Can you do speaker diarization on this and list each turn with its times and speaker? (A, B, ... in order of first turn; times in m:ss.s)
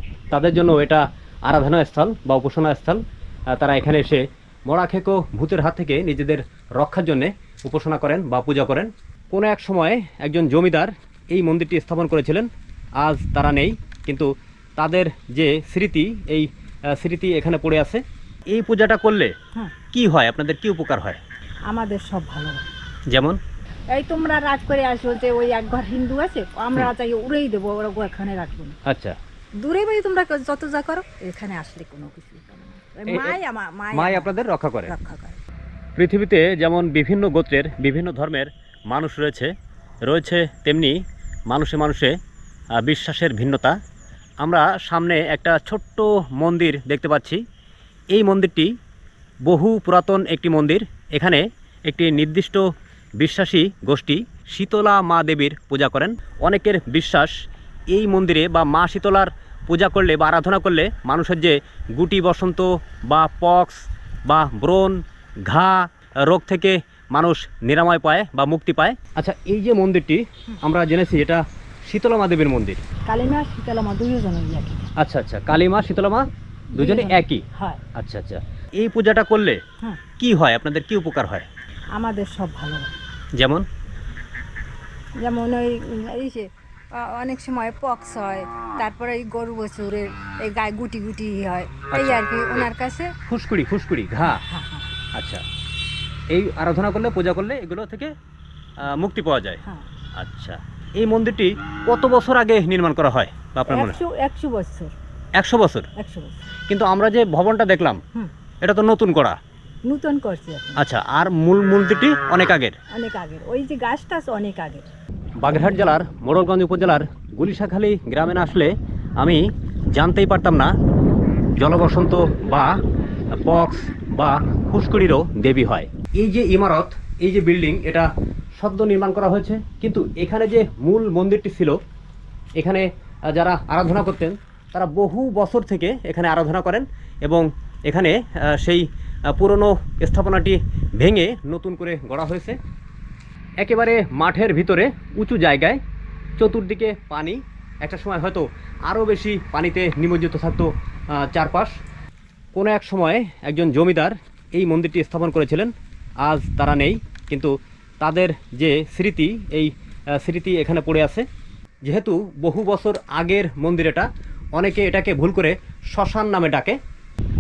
0:00.3-0:03.0 A
0:03.5-0:19.3 A
0:19.9-0:21.2 A
0:21.7-0:22.6 B
0:23.1-0:23.4 A
0:23.9-0:28.8 B
0:28.8-0:29.2 A
0:29.6-0:34.3 B
0:33.1-0:33.4 A
0:33.9-0:34.9 A
0:34.8-0:35.4 B
0:36.0-0:39.5 A
0:40.1-0:41.0 A
0:41.5-0:42.1 A
0:42.8-0:43.7 A
0:44.4-0:47.4 A
0:48.1-0:48.7 A
0:49.4-0:52.6 A
0:53.2-0:57.3 A
0:57.9-1:12.8 A
1:13.0-1:14.9 B
1:15.0-1:17.4 A
1:16.7-1:17.8 B
1:17.9-1:19.6 A
1:20.2-1:21.5 A
1:21.9-1:22.9 B
1:23.4-1:23.6 A
1:25.2-1:33.2 B
1:31.9-1:32.7 A
1:33.3-1:34.4 A
1:34.2-1:34.9 B
1:35.1-1:35.4 A
1:36.3-1:38.1 A
1:38.8-1:39.6 A
1:40.2-1:44.0 A
1:43.7-1:44.9 B
1:45.4-1:45.9 A
1:46.0-1:46.4 B
1:46.7-1:48.0 A
1:48.6-1:49.4 A
1:49.8-1:50.8 B
1:50.8-1:52.8 A
1:52.9-1:54.9 B
1:55.4-2:00.7 A
2:01.6-2:02.8 A
2:03.3-2:08.1 A
2:08.6-2:11.8 A
2:12.6-2:22.6 A
2:23.6-2:25.8 A
2:26.4-2:31.8 A
2:32.5-2:35.7 A
2:36.2-2:41.2 A
2:41.8-2:46.8 A